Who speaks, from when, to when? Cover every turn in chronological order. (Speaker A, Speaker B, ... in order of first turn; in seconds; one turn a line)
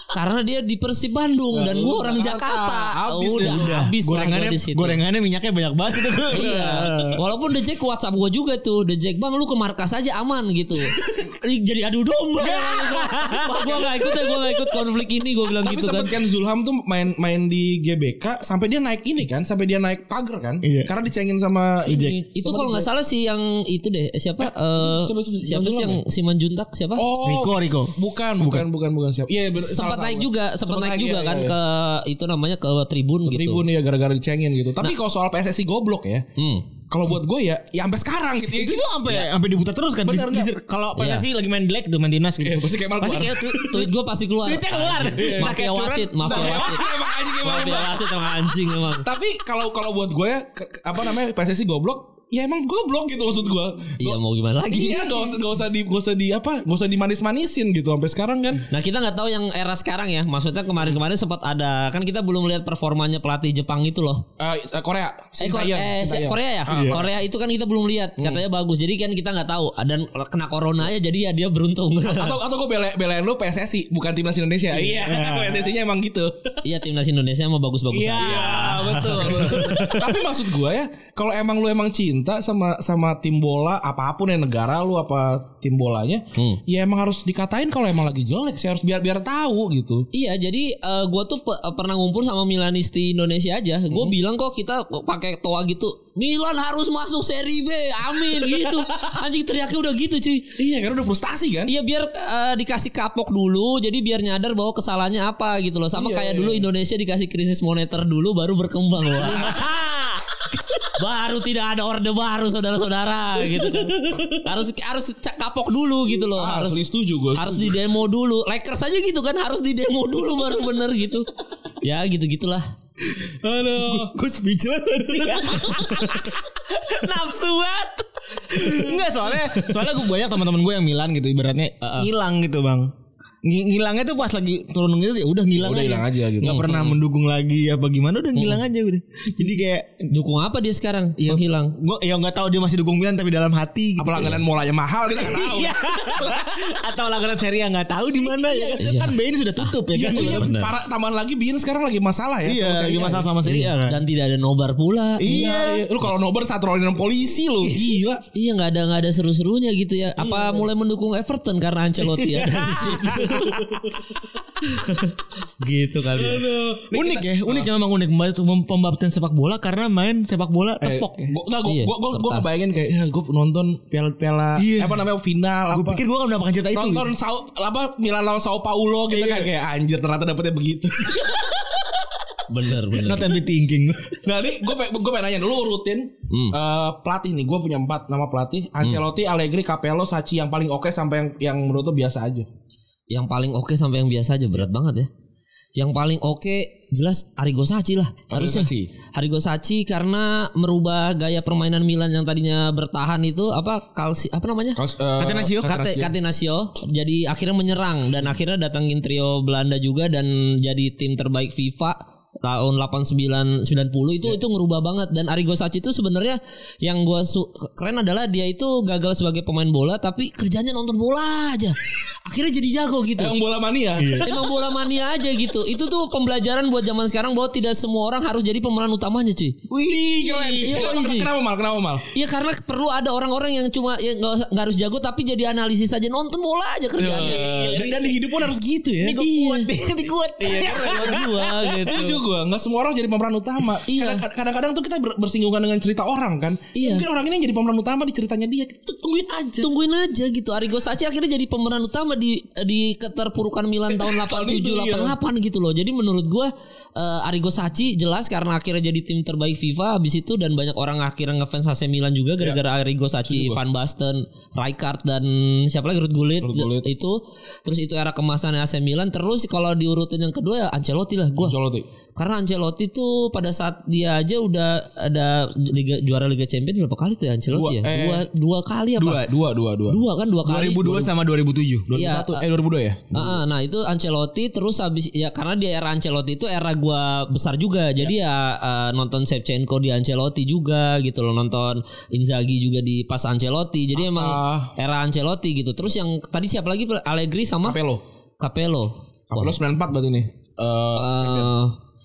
Speaker A: 0.1-5.0
Speaker B: 1.5-3.9
Speaker C: 3.4-7.2
Speaker A: 6.3-16.1
Speaker C: 12.4-14.4
Speaker B: 15.6-22.9
Speaker C: 20.6-20.9
Speaker C: 21.9-22.2
Speaker A: 22.4-27.1
Speaker B: 24.4-26.0
Speaker B: 27.0-31.6
Speaker C: 27.2-28.6
Speaker A: 29.6-33.6
Speaker B: 33.2-36.2
Speaker A: 36.4-36.7
Speaker B: 36.9-38.9
Speaker C: 38.5-43.9
Speaker B: 40.0-40.5
Speaker A: 41.0-41.2
Speaker B: 42.4-43.6
Speaker A: 43.6-46.8
Speaker C: 44.4-46.8
Speaker B: 45.1-45.5
Speaker B: 46.2-48.3
Speaker A: 47.4-49.1
Speaker B: 49.0-58.7
Speaker A: 54.0-55.2
Speaker A: 58.7-64.2
Speaker B: 64.4-67.1
Speaker A: 65.4-72.4
Speaker C: 66.7-67.0
Speaker B: 72.0-76.6
Speaker C: 74.9-75.7
Speaker A: 76.6-79.9
Speaker C: 77.9-80.2
Speaker B: 78.0-90.1
Speaker A: 86.3-86.6
Speaker A: 90.1-100.5
Speaker B: 93.9-94.1
Speaker B: 98.4-99.1
Speaker B: 100.6-101.7
Speaker A: 101.7-109.7
Speaker B: 105.9-106.7
Speaker C: 109.5-110.2
Speaker A: 110.9-116.8
Speaker C: 113.9-114.2
Speaker B: 116.3-117.7
Speaker A: 117.4-121.2
Speaker A: 121.8-122.7
Speaker B: 123.4-124.1
Speaker C: 123.8-132.9
Speaker B: 125.4-126.2
Speaker B: 128.5-130.0
Speaker A: 131.8-132.1
Speaker C: 133.4-140.0
Speaker B: 135.6-136.8
Speaker A: 136.5-136.9
Speaker A: 140.1-141.7
Speaker C: 141.2-144.4
Speaker B: 144.0-146.4
Speaker C: 145.1-150.5
Speaker B: 148.4-148.8
Speaker A: 148.8-150.7
Speaker B: 149.9-153.3
Speaker C: 152.4-154.0
Speaker A: 153.4-155.3
Speaker C: 155.2-155.9
Speaker B: 155.2-158.2
Speaker C: 157.6-157.9
Speaker A: 158.3-163.6
Speaker C: 160.2-160.7
Speaker C: 162.0-164.0
Speaker A: 164.7-166.5
Speaker B: 166.2-167.7
Speaker C: 166.9-171.3
Speaker B: 170.8-176.0
Speaker A: 171.7-172.5
Speaker C: 174.6-175.0
Speaker C: 175.7-177.1
Speaker B: 176.7-181.4
Speaker C: 179.1-179.5
Speaker C: 181.2-181.8
Speaker A: 182.5-183.3
Speaker C: 182.9-184.2
Speaker B: 184.2-192.5
Speaker A: 186.3-186.6
Speaker A: 193.1-195.1
Speaker A: 195.8-204.8
Speaker B: 198.3-198.9
Speaker B: 204.8-206.1
Speaker C: 205.2-206.1
Speaker A: 205.8-221.8
Speaker A: 222.2-223.3
Speaker B: 223.2-224.2
Speaker C: 224.0-224.3
Speaker A: 224.2-229.6
Speaker C: 229.7-231.0
Speaker B: 229.9-232.0
Speaker A: 230.6-231.3
Speaker A: 232.1-237.7
Speaker C: 237.0-238.2
Speaker B: 237.0-239.2
Speaker C: 239.0-242.1
Speaker A: 239.2-239.8
Speaker B: 240.4-241.3
Speaker A: 240.5-242.1
Speaker B: 241.9-249.5
Speaker A: 243.9-244.2
Speaker A: 246.8-247.0
Speaker C: 249.3-249.6
Speaker A: 249.6-271.5
Speaker B: 254.0-255.2
Speaker B: 263.2-263.6
Speaker B: 266.4-266.9
Speaker B: 271.4-271.9
Speaker A: 272.2-279.2
Speaker B: 277.5-278.2
Speaker B: 279.0-280.0
Speaker A: 279.9-281.1
Speaker C: 280.4-281.9
Speaker B: 281.9-283.4
Speaker A: 281.9-282.4
Speaker A: 283.1-297.8
Speaker B: 293.9-294.7
Speaker B: 297.6-298.0
Speaker A: 298.4-299.5
Speaker B: 299.3-301.5
Speaker A: 300.9-301.8